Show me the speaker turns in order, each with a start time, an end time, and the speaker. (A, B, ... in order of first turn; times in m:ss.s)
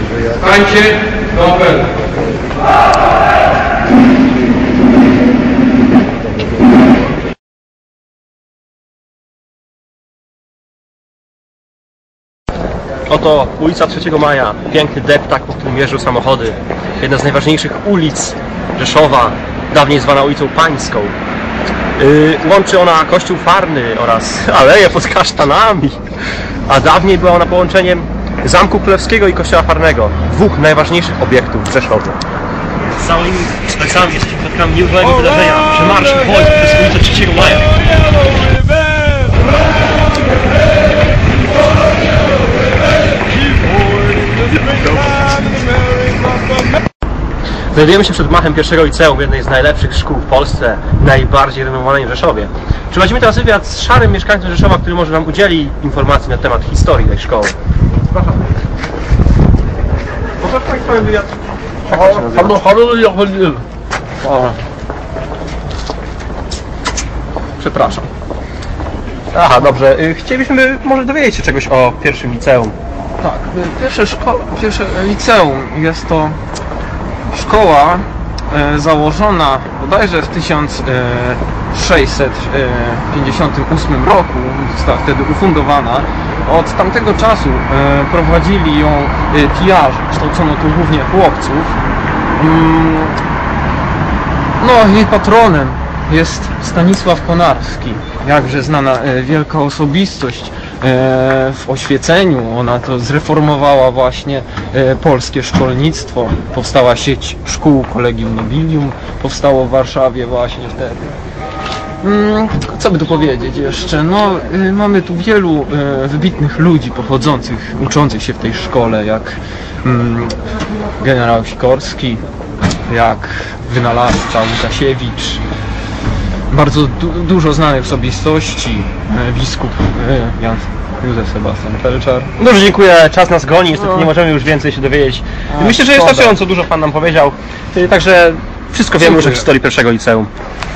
0:00.3-0:02.0 A
0:13.1-0:21.1 B
0:22.0-0:26.0 B
0:26.7-0:32.2 B
0:33.0-0:37.7 B
0:47.7-0:57.5 B
1:00.4-1:01.3 B
1:01.9-1:03.6 B
1:04.2-1:04.6 A
1:07.6-1:08.1 A
1:09.3-1:12.8 B
1:13.2-1:16.4 A
1:17.3-1:31.8 A
1:32.4-1:33.2 A
1:34.6-1:51.1 A
1:52.0-2:00.4 A
2:01.0-2:02.2 A
2:02.8-2:05.4 A
2:06.5-2:12.3 A
2:12.4-2:20.3 B
2:13.8-2:14.1 A
2:15.5-2:16.4 A
2:19.0-2:19.4 A